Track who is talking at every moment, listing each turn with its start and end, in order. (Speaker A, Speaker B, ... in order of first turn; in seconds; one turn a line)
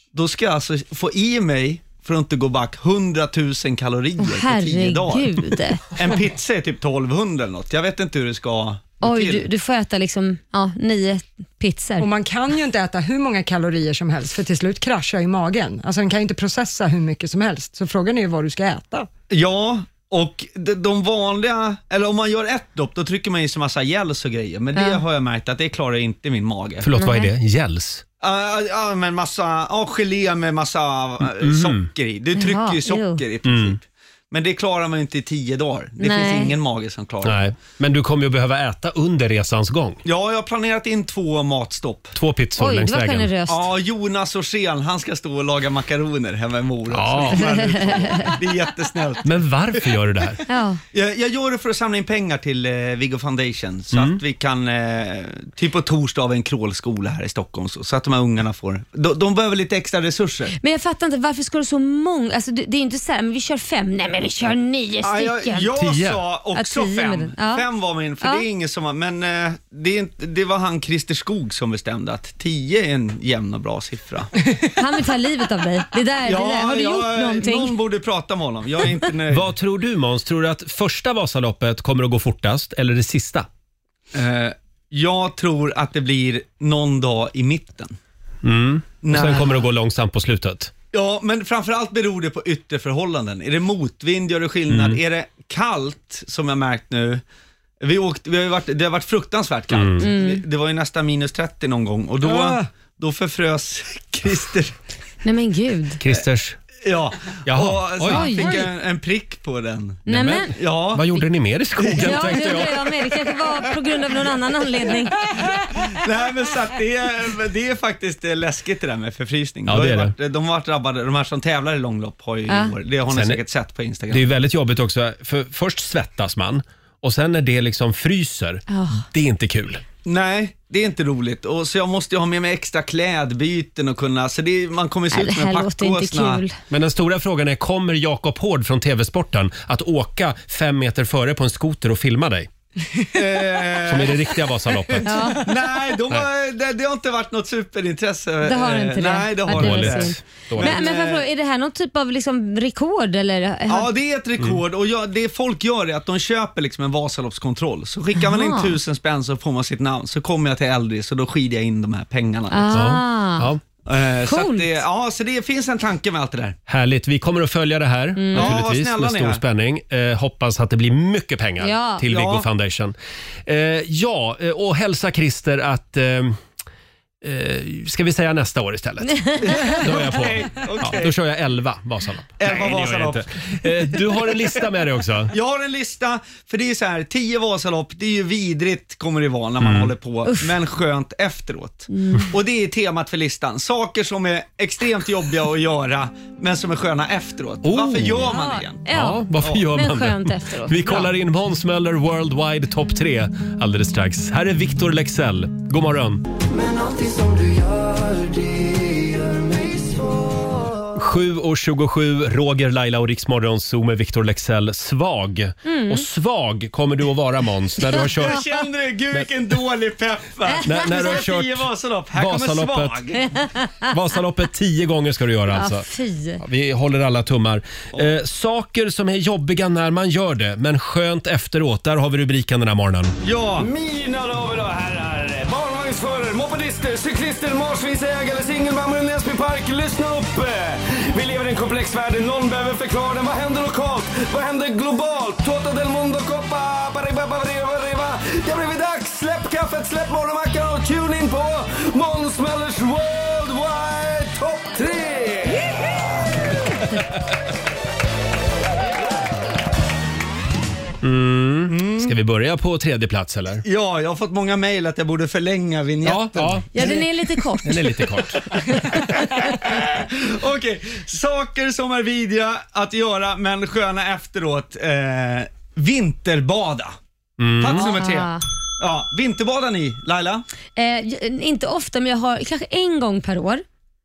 Speaker A: 0.1-5.3
Speaker B: 4.2-5.9
Speaker A: 5.9-9.5
Speaker B: 9.0-12.1
Speaker C: 12.0-19.1
Speaker A: 19.3-26.9
Speaker B: 24.8-25.0
Speaker D: 26.8-28.0
Speaker B: 27.0-27.3
Speaker A: 28.2-37.4
Speaker D: 31.3-31.9
Speaker B: 32.4-33.2
Speaker D: 33.4-33.8
Speaker B: 36.0-36.5
Speaker D: 37.2-40.0
Speaker A: 40.0-42.1
Speaker D: 42.1-43.3
Speaker B: 42.6-43.7
Speaker A: 43.5-50.0
Speaker D: 46.9-47.9
Speaker B: 47.3-48.3
Speaker D: 49.2-50.4
Speaker B: 50.5-50.8
Speaker A: 50.9-60.5
Speaker D: 53.9-54.2
Speaker B: 60.6-65.7
Speaker A: 65.0-74.3
Speaker D: 65.8-66.2
Speaker B: 66.5-67.7
Speaker B: 74.8-77.8
Speaker A: 76.2-79.5
Speaker D: 79.3-83.5
Speaker A: 84.1-88.0
Speaker D: 88.4-90.7
Speaker A: 89.0-89.7
Speaker A: 90.9-97.2
Speaker D: 94.7-95.0
Speaker A: 97.8-104.7
Speaker D: 99.7-100.1
Speaker B: 100.0-100.4
Speaker D: 102.2-102.6
Speaker B: 105.2-106.0
Speaker D: 106.0-106.6
Speaker A: 106.8-111.1
Speaker D: 107.5-108.6
Speaker B: 108.1-108.6
Speaker B: 110.1-110.5
Speaker D: 110.1-112.9
Speaker A: 111.8-112.4
Speaker B: 112.0-115.2
Speaker A: 115.9-124.3
Speaker D: 119.7-120.2
Speaker B: 122.5-122.7
Speaker D: 123.1-123.4
Speaker D: 124.1-129.8
Speaker B: 128.7-129.1
Speaker A: 130.1-136.4
Speaker B: 135.1-136.6
Speaker D: 136.7-142.5
Speaker A: 143.1-151.3
Speaker D: 143.8-145.4
Speaker B: 145.0-145.5
Speaker B: 148.4-153.9
Speaker D: 149.5-150.8
Speaker A: 153.7-162.8
Speaker B: 158.2-158.8
Speaker B: 162.5-163.5
Speaker D: 162.7-163.6
Speaker A: 163.8-166.6
Speaker B: 164.2-164.7
Speaker D: 166.7-172.9
Speaker B: 168.2-168.6
Speaker A: 168.3-169.4
Speaker B: 171.6-172.1
Speaker A: 172.1-172.5
Speaker D: 173.5-176.4
Speaker D: 177.2-185.3
Speaker B: 179.1-180.1
Speaker A: 179.4-181.2
Speaker A: 182.4-183.2
Speaker A: 185.3-198.8
Speaker D: 189.6-189.9
Speaker B: 190.2-190.5
Speaker B: 191.9-192.3
Speaker D: 197.6-198.3
Speaker B: 198.2-201.1
Speaker D: 198.9-206.2
Speaker A: 199.4-199.6
Speaker E: 206.6-210.2
Speaker D: 211.0-218.5
Speaker B: 215.7-216.1
Speaker A: 218.0-223.2
Speaker B: 220.5-221.1
Speaker D: 220.6-223.0
Speaker B: 223.2-223.9
Speaker D: 223.9-225.9
Speaker B: 225.5-226.4
Speaker D: 226.4-233.2
Speaker A: 233.2-233.7
Speaker E: 233.6-256.0
Speaker D: 261.0-263.6
Speaker A: 261.7-262.1
Speaker A: 263.6-267.0
Speaker D: 266.0-267.1
Speaker B: 266.7-268.0
Speaker D: 267.6-268.9
Speaker B: 268.7-269.4
Speaker A: 268.9-276.9
Speaker D: 277.4-277.9
Speaker A: 277.6-280.4
Speaker B: 277.7-278.4
Speaker B: 280.8-283.6